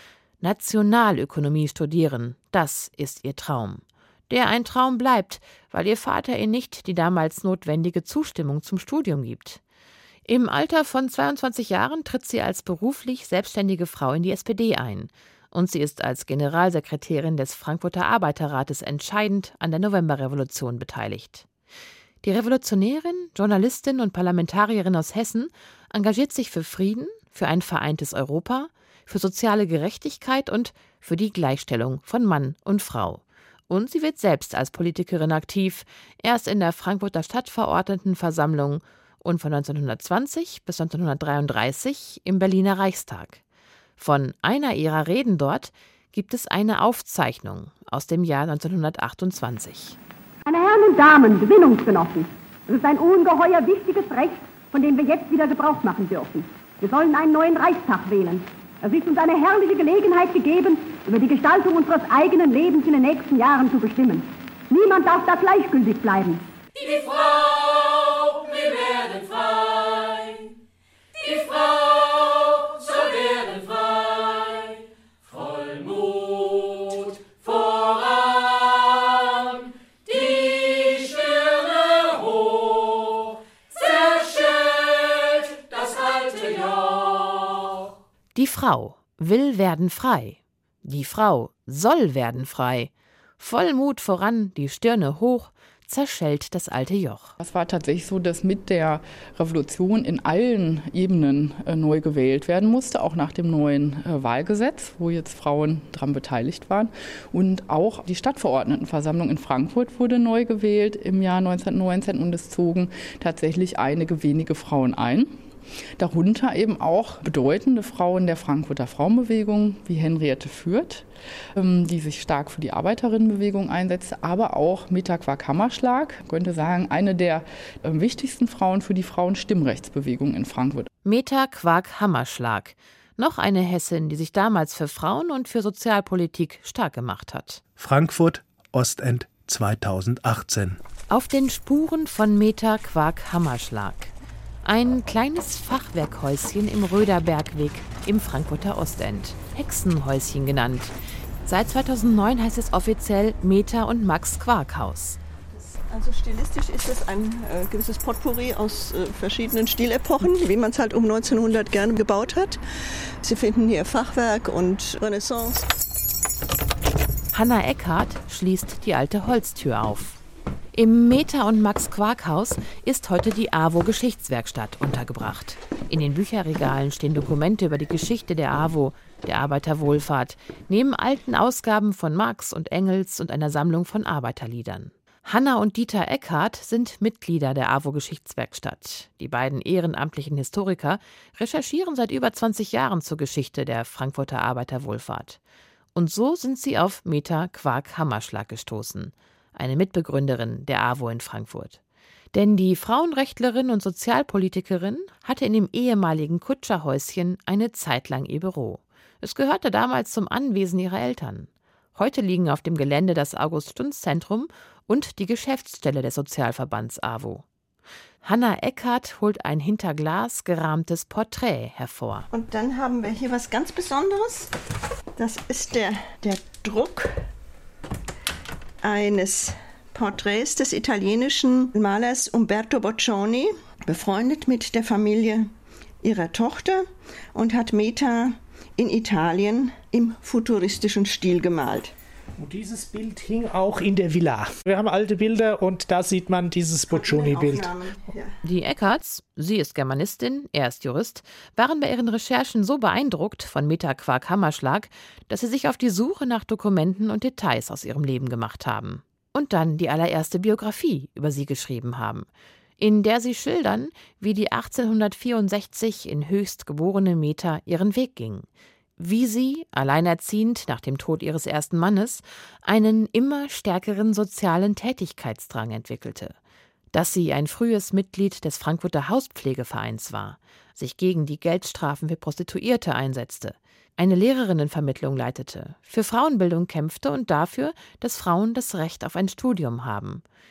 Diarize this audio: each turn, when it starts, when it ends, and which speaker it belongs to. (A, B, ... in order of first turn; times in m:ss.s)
0:00.4-0:09.6 A
0:10.3-0:21.4 A
0:22.2-0:43.4 A
0:44.0-0:50.0 A
0:50.4-1:06.4 B
1:28.3-1:37.4 A
1:37.4-1:55.4 C
1:56.0-2:10.9 C
2:11.0-2:17.6 A
2:17.8-2:20.8 D
2:21.1-2:24.1 A
2:24.6-2:30.9 A
2:31.4-2:35.2 A
2:35.9-2:42.6 E
2:43.2-2:45.6 E
2:47.3-2:50.2 A
2:50.8-3:15.4 A
3:15.9-3:21.8 A
3:22.3-3:37.4 A
3:38.2-3:42.3 A
3:42.3-3:44.5 E
3:45.2-3:47.1 E
3:48.8-3:55.5 E
3:56.0-4:01.9 E
4:02.4-4:07.8 F
4:06.9-4:08.4 E
4:08.4-4:28.5 A
4:29.0-4:36.4 A
4:36.9-4:50.2 A